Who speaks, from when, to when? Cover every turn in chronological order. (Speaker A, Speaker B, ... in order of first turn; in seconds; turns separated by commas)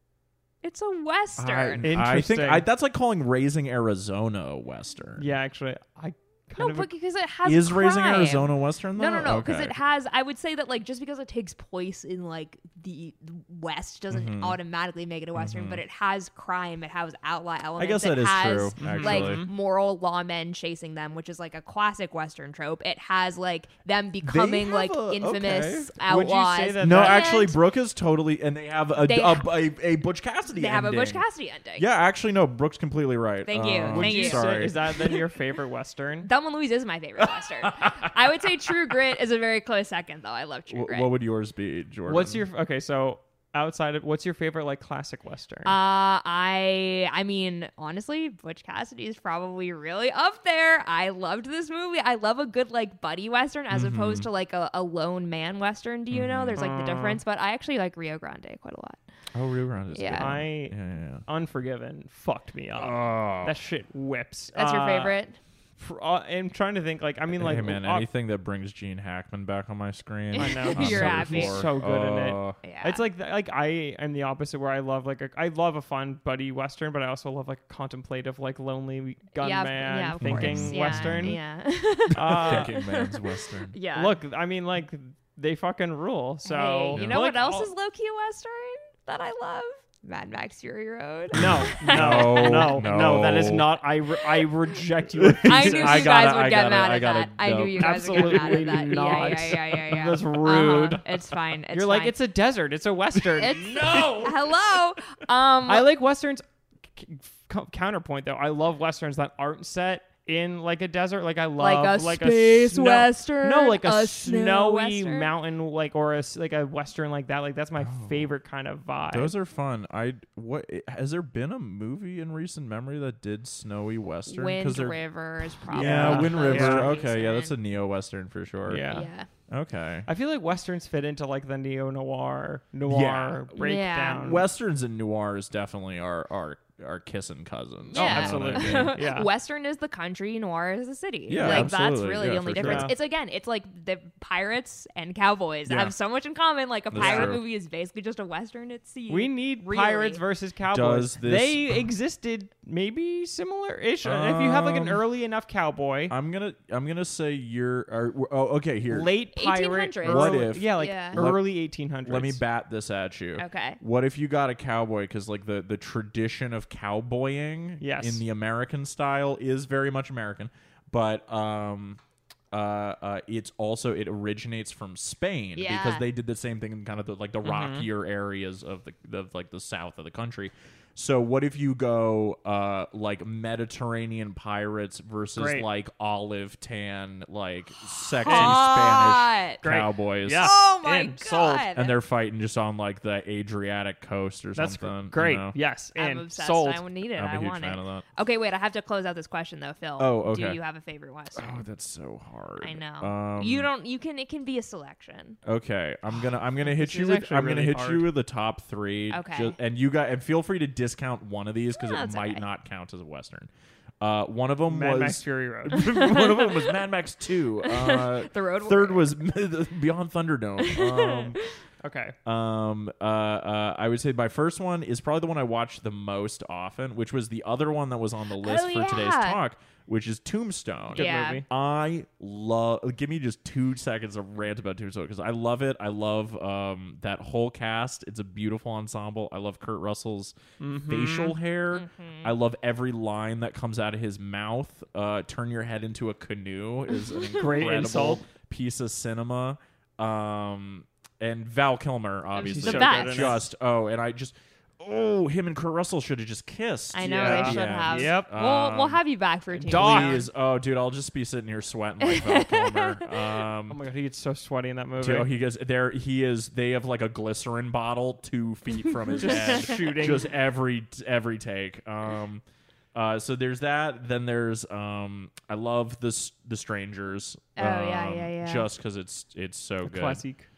Speaker A: 0.6-1.8, Speaker B: 1.4-5.3, Speaker C: 1.8-2.6, Speaker C: 5.2-6.9, Speaker A: 6.6-27.6, Speaker B: 7.4-9.8, Speaker B: 14.1-14.6, Speaker B: 15.3-15.8, Speaker B: 17.8-19.4, Speaker C: 18.8-19.5, Speaker B: 24.2-26.0, Speaker C: 26.1-27.4, Speaker B: 26.8-31.2, Speaker A: 29.0-29.5, Speaker A: 30.5-31.9, Speaker B: 31.8-35.2, Speaker A: 33.5-34.5, Speaker C: 33.9-36.3, Speaker A: 36.2-41.1, Speaker B: 37.2-38.9, Speaker B: 40.7-42.4, Speaker C: 42.1-45.7, Speaker A: 45.6-59.0, Speaker B: 53.7-54.3, Speaker B: 56.1-56.6, Speaker C: 56.5-57.2, Speaker B: 59.3-61.2, Speaker A: 59.9-60.3, Speaker C: 60.1-65.2, Speaker B: 62.8-63.5, Speaker A: 64.5-65.4, Speaker C: 65.8-68.1, Speaker B: 67.3-72.6, Speaker A: 70.3-71.6, Speaker C: 70.4-81.4, Speaker A: 72.6-73.0, Speaker A: 79.4-83.1, Speaker B: 80.2-81.4, Speaker C: 82.1-82.7, Speaker B: 82.2-83.8, Speaker A: 83.7-84.1, Speaker C: 83.9-87.7, Speaker A: 86.4-92.8, Speaker B: 86.9-87.2, Speaker B: 91.3-93.8, Speaker C: 91.3-96.1, Speaker B: 95.2-99.5, Speaker A: 95.4-102.1, Speaker C: 97.8-103.7, Speaker A: 103.3-105.9, Speaker B: 103.4-104.6, Speaker C: 105.7-106.4, Speaker C: 106.9-119.3, Speaker A: 111.6-115.3, Speaker B: 117.8-118.3, Speaker B: 119.1-125.0, Speaker A: 124.3-127.5, Speaker B: 125.6-128.9, Speaker C: 125.7-126.9, Speaker C: 128.7-129.1, Speaker A: 128.9-129.3, Speaker B: 129.5-130.1, Speaker C: 130.1-134.4, Speaker B: 132.9-133.5, Speaker A: 133.6-134.3, Speaker B: 134.1-139.0, Speaker A: 137.9-150.2, Speaker C: 137.9-139.3, Speaker B: 141.3-142.9, Speaker C: 141.4-141.7, Speaker C: 142.5-142.9, Speaker B: 145.7-145.9, Speaker B: 146.9-147.4, Speaker C: 146.9-147.3, Speaker C: 149.1-156.1, Speaker B: 150.7-151.8, Speaker B: 154.0-155.0, Speaker B: 156.1-159.1, Speaker C: 158.9-162.4, Speaker A: 159.3-161.2, Speaker B: 160.0-161.4, Speaker B: 162.0-172.0, Speaker A: 163.4-163.8, Speaker C: 167.8-168.2, Speaker B: 172.5-190.5, Speaker A: 175.6-176.1, Speaker C: 177.4-177.9, Speaker C: 185.3-185.7, Speaker A: 188.2-189.6, Speaker C: 188.2-188.6, Speaker C: 189.6-191.2, Speaker A: 190.3-191.9, Speaker B: 191.2-195.6, Speaker C: 194.6-196.8, Speaker A: 195.9-201.6, Speaker B: 197.2-198.0, Speaker B: 200.0-200.6, Speaker B: 201.3-203.7, Speaker A: 202.6-205.4, Speaker B: 205.4-213.5, Speaker C: 206.6-208.1, Speaker A: 209.1-209.6, Speaker A: 211.8-212.4, Speaker B: 214.0-221.4, Speaker C: 214.7-215.8, Speaker A: 215.7-216.8, Speaker A: 217.6-219.2, Speaker A: 220.6-221.6, Speaker C: 221.8-222.1, Speaker B: 222.2-240.3, Speaker A: 228.4-229.4, Speaker C: 230.9-231.4, Speaker A: 230.9-231.4, Speaker C: 240.6-241.4, Speaker B: 240.9-259.0, Speaker A: 241.7-242.3, Speaker C: 247.3-248.2, Speaker A: 252.4-253.4, Speaker C: 252.4-253.4, Speaker A: 256.9-260.3, Speaker C: 257.0-258.3, Speaker C: 259.6-260.2, Speaker B: 259.7-263.8, Speaker A: 262.0-263.2, Speaker C: 263.7-265.3, Speaker B: 265.0-272.4, Speaker A: 268.9-269.9, Speaker C: 269.2-270.3, Speaker B: 272.9-280.2, Speaker A: 277.6-278.7, Speaker C: 279.8-280.4